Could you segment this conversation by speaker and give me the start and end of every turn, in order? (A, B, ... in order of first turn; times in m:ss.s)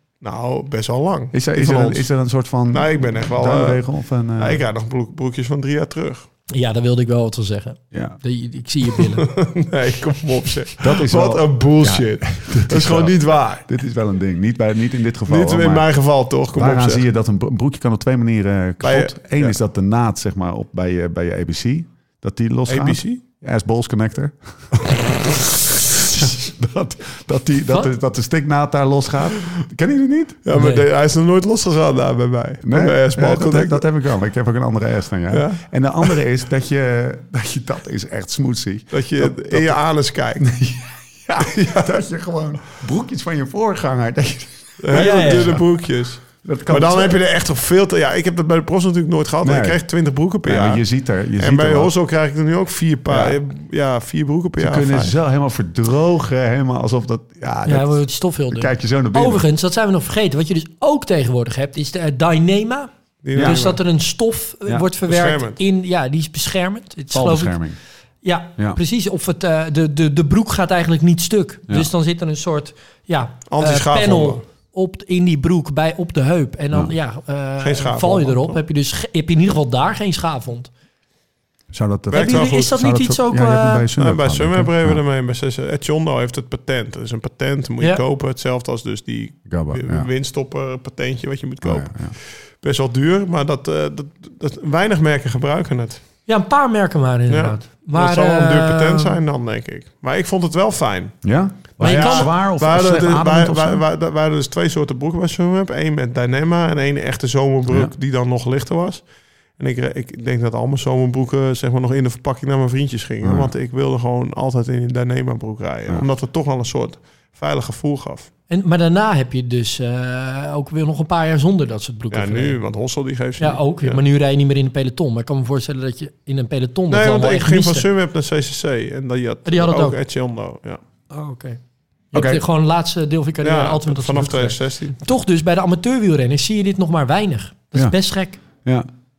0:00.2-0:02.1 A
0:01.3-0:04.6 B
0:02.7-0:03.8 A
0:04.4-0:06.3 A
0:06.5-0:09.3 C
0:07.9-0:08.2 B
0:09.0-0:13.7 A
0:10.8-0:15.9 B
0:15.3-0:17.0 A
0:16.5-0:25.4 B
0:18.8-0:19.6 A
0:22.7-0:23.2 A
0:26.0-0:30.4 B
0:30.4-0:33.9 A
0:30.5-0:30.8 C
0:32.6-0:39.8 B
0:35.3-0:36.1 A
0:38.9-0:40.5 A
0:40.4-0:45.7 B
0:41.4-0:41.9 A
0:44.8-0:50.8 A
0:44.9-0:45.6 C
0:46.4-0:47.2 B
0:49.4-0:49.8 B
0:50.4-0:51.9 B
0:51.4-0:55.1 A
0:53.1-0:53.4 B
0:54.6-0:59.4 B
0:57.7-1:07.6 C
1:03.2-1:03.8 A
1:03.3-1:03.7 B
1:05.1-1:05.6 A
1:07.1-1:07.8 B
1:08.2-1:20.7 C
1:13.5-1:14.4 A
1:17.6-1:18.6 A
1:21.7-1:25.0 B
1:22.1-1:22.7 A
1:22.1-1:23.9 C
1:24.0-1:36.0 A
1:29.5-1:30.1 B
1:31.6-1:32.2 B
1:36.3-1:39.2 C
1:37.3-1:49.1 A
1:41.2-1:43.8 B
1:41.8-1:42.3 C
1:47.7-1:47.9 B
1:49.6-1:58.3 A
1:53.2-1:53.5 B
1:58.5-2:02.6 C
2:02.1-2:04.0 A
2:03.4-2:07.9 C
2:06.9-2:10.8 A
2:09.5-2:10.0 C
2:11.1-2:11.6 C
2:12.1-2:18.4 C
2:12.1-2:12.4 B
2:13.4-2:15.0 A